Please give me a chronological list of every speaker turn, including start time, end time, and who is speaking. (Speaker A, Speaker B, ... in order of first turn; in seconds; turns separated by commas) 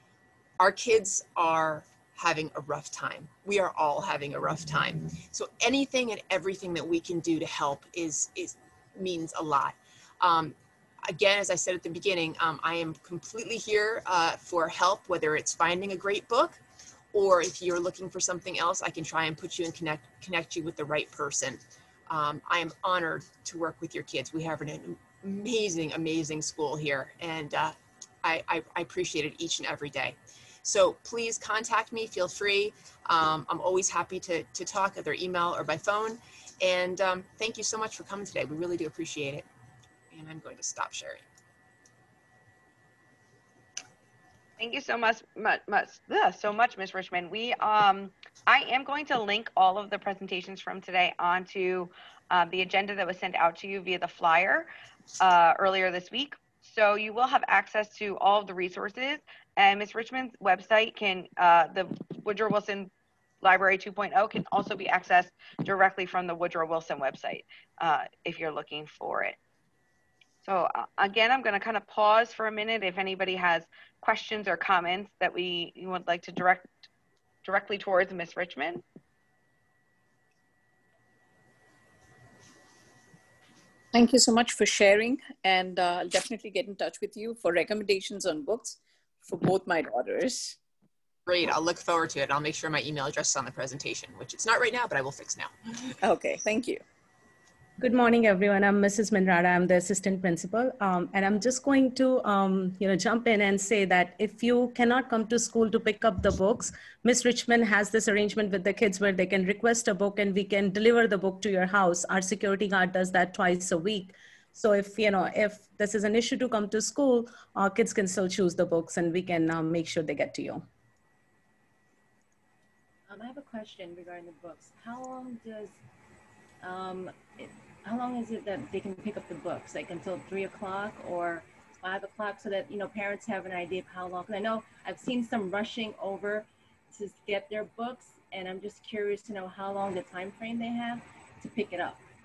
Speaker A: 0.6-16.6, Speaker A: 17.1-39.5, Speaker A: 40.1-41.2, Speaker B: 44.6-54.7, Speaker B: 55.2-62.9, Speaker B: 63.4-69.4, Speaker B: 70.4-76.8, Speaker B: 77.4-78.8, Speaker C: 83.9-90.6, Speaker A: 91.2-95.5, Speaker C: 96.0-96.8, Speaker D: 97.8-120.6, Speaker E: 123.1-125.8, Speaker E: 126.6-142.0